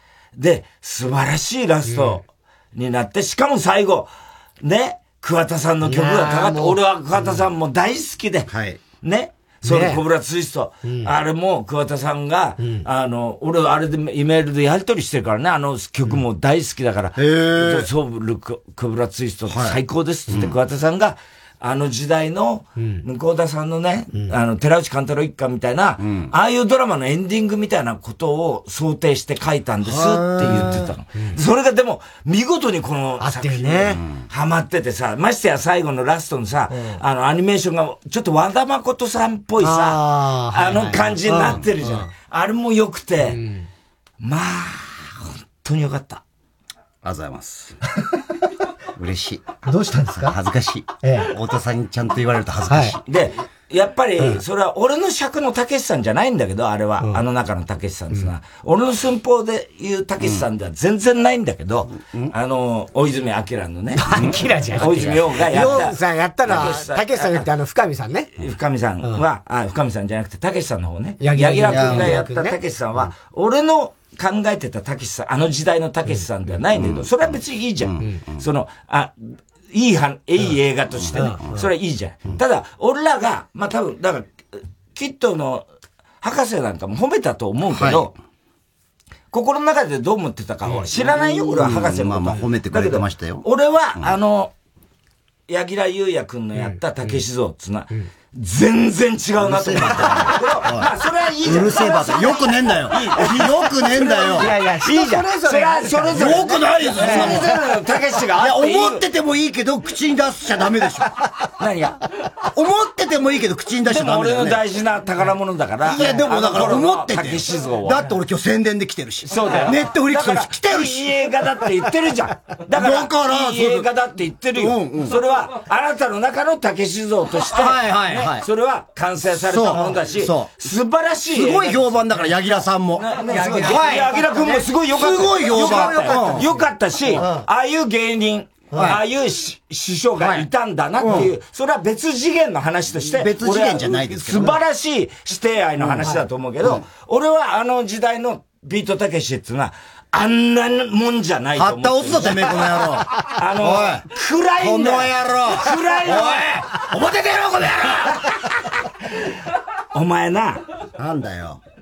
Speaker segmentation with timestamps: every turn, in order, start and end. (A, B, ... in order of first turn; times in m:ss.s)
0:00.4-0:43.4 A
0:01.9-0:02.2 B
0:05.8-0:07.4 B
0:08.5-0:08.8 C
0:09.7-0:10.0 B
0:10.8-0:11.1 B
0:12.6-0:12.9 B
0:17.2-0:17.9 C
0:19.5-0:19.8 C
0:22.8-0:23.0 B
0:26.0-0:26.3 C
0:29.8-0:30.9 C
0:33.2-0:34.0 B
0:39.6-0:42.1 B
0:43.3-0:43.7 B
0:44.2-0:46.2 A
0:47.0-0:47.8 C
0:49.0-0:49.4 C
0:49.7-0:50.4 B
0:50.2-0:53.0 C
0:51.0-0:51.3 B
0:52.7-0:53.0 B
0:53.0-1:07.5 A
1:04.0-1:08.3 B
1:08.4-1:19.2 A
1:11.2-1:13.1 B
1:11.7-1:12.2 C
1:16.7-1:17.3 C
1:19.7-1:25.7 A
1:21.1-1:21.7 B
1:26.2-1:28.1 A
1:27.7-1:28.1 C
1:29.3-1:34.5 A
1:30.7-1:31.1 B
1:31.4-1:33.4 C
1:35.5-1:49.1 A
1:36.6-1:37.2 B
1:39.4-1:40.9 C
1:41.4-1:44.5 C
1:43.9-1:47.6 B
1:46.1-1:47.6 C
1:48.4-1:51.1 C
1:51.6-1:52.0 A
1:52.5-1:54.6 C
1:53.8-1:58.1 A
1:55.8-2:01.0 C
1:59.3-2:12.2 A
2:02.7-2:03.9 C
2:04.6-2:05.2 C
2:07.4-2:08.5 C
2:09.2-2:10.5 C
2:09.7-2:10.0 B
2:11.3-2:14.1 C
2:12.9-2:36.6 A
2:13.2-2:14.7 B
2:14.8-2:16.5 C
2:15.4-2:17.4 B
2:18.7-2:19.0 B
2:18.8-2:19.0 C
2:20.2-2:20.5 C
2:21.0-2:21.3 C
2:22.9-2:24.6 C
2:26.0-2:26.2 B
2:31.6-2:34.0 C
2:34.6-2:38.0 C
2:39.9-2:40.6 A
2:41.0-2:41.6 C